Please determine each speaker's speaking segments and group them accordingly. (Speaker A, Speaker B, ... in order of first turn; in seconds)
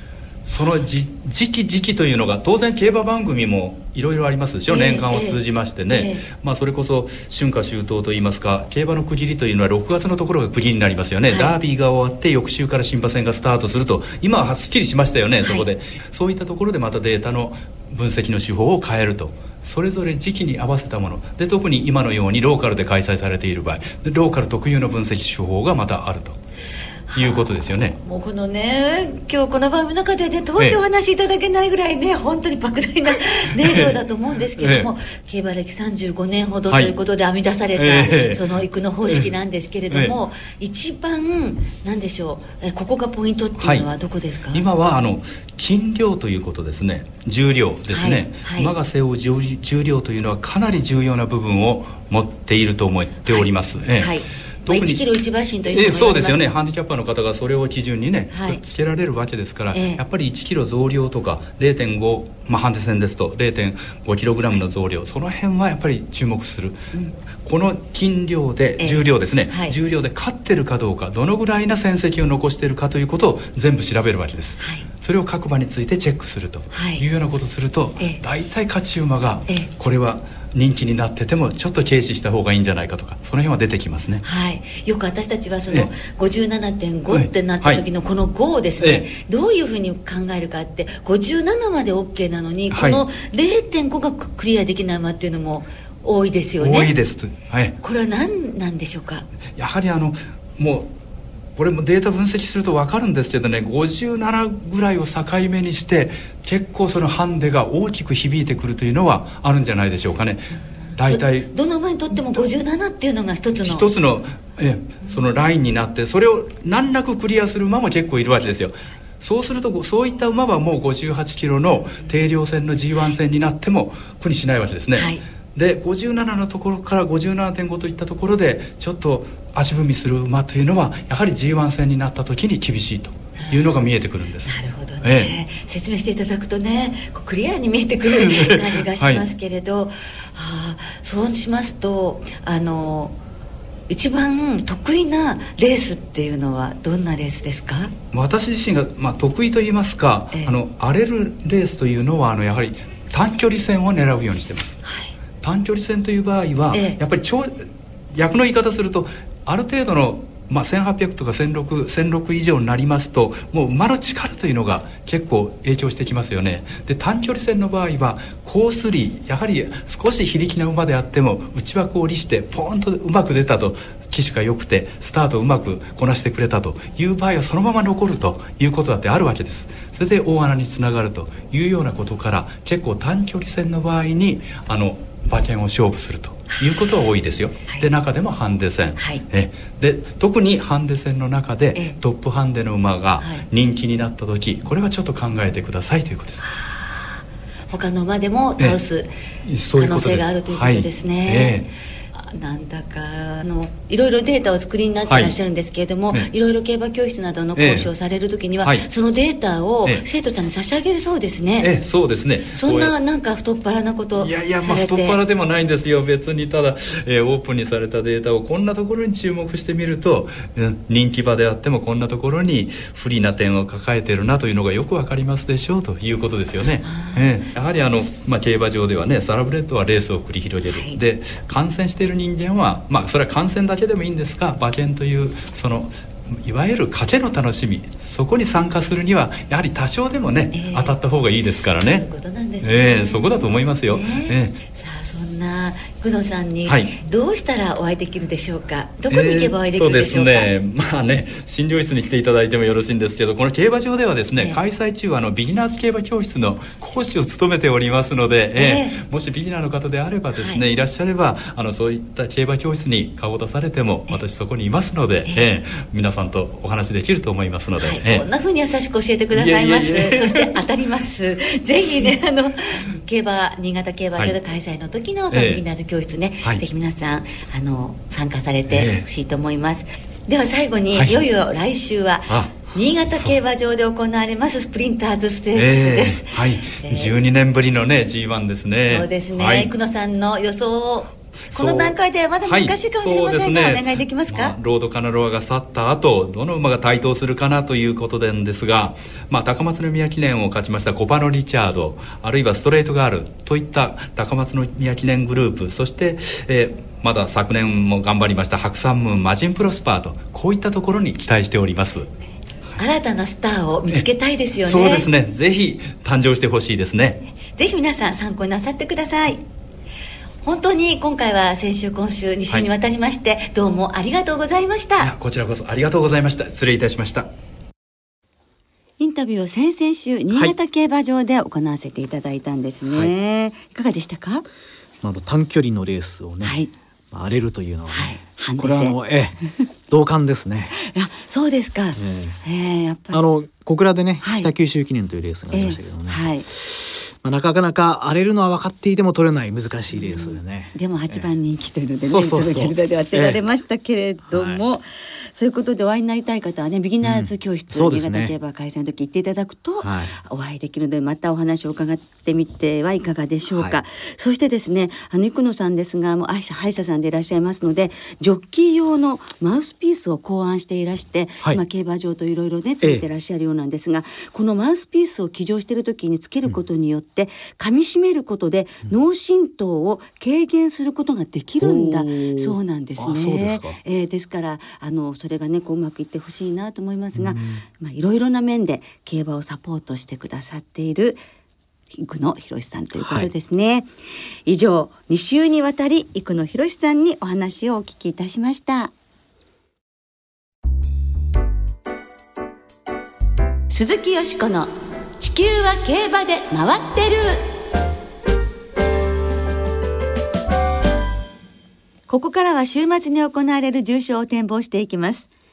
Speaker A: 0.5-26.4, 27.2-28.0, 33.6-34.0, 34.6-34.9, 36.7-37.0, 37.7-39.3, 39.9-40.2, 43.6-43.9, 44.5-55.1, 55.7-66.9, 67.4-84.2, 87.1-87.8, 88.8-89.1, 92.7-93.0, 96.6-97.8, 99.6-100.9, 101.6-111.5, 112.1-112.5, 113.6-135.3, 138.1-139.3, 148.1-154.8, 155.4-196.5, 199.4-201.7, 205.1-205.3, 207.6-207.9, 208.6-208.9, 211.6-212.9, 214.2-242.1, 242.6-244.6, 246.7-246.9, 249.1-268.3, 269.3-270.6, 275.3-275.6, 278.7-279.1, 280.9-281.2, 282.3-283.4, 285.5-289.7, 291.5-312.1, 314.6-317.2, 325.0-327.3
Speaker B: 4.7-6.2, 11.3-11.5, 15.4-15.7, 27.1-44.6, 47.9-48.7, 54.0-56.5, 58.3-58.6, 59.7-60.0, 68.8-69.8, 74.6-74.8, 76.7-77.0, 84.2-96.9, 97.8-99.3, 111.0-113.9, 125.0-125.2, 133.4-133.8, 134.4-143.2, 143.9-147.9, 154.8-155.1, 156.7-157.0, 186.5-186.8, 189.0-189.2, 193.2-193.5, 196.4-199.1, 199.8-211.7, 212.5-215.2, 226.8-227.4, 230.7-231.0, 240.5-241.0, 241.8-250.5, 258.6-259.0, 260.3-260.6, 267.8-287.2, 288.9-294.6, 312.8-315.1, 317.4-319.4, 320.4-325.1, 329.0-334.4, 336.4-336.7, 337.9-339.0, 340.8-343.2, 344.2-344.5, 345.5-346.4, 349.9-391.2, 391.9-393.9, 394.5-398.9, 403.7-407.4, 412.1-415.3
Speaker C: 335.0-336.6, 337.1-339.4, 339.9-340.8, 342.0-342.4, 343.1-351.3, 352.0-353.4, 354.3-354.6, 357.0-358.3, 359.8-360.1, 381.6-383.8, 387.1-387.6, 393.0-393.3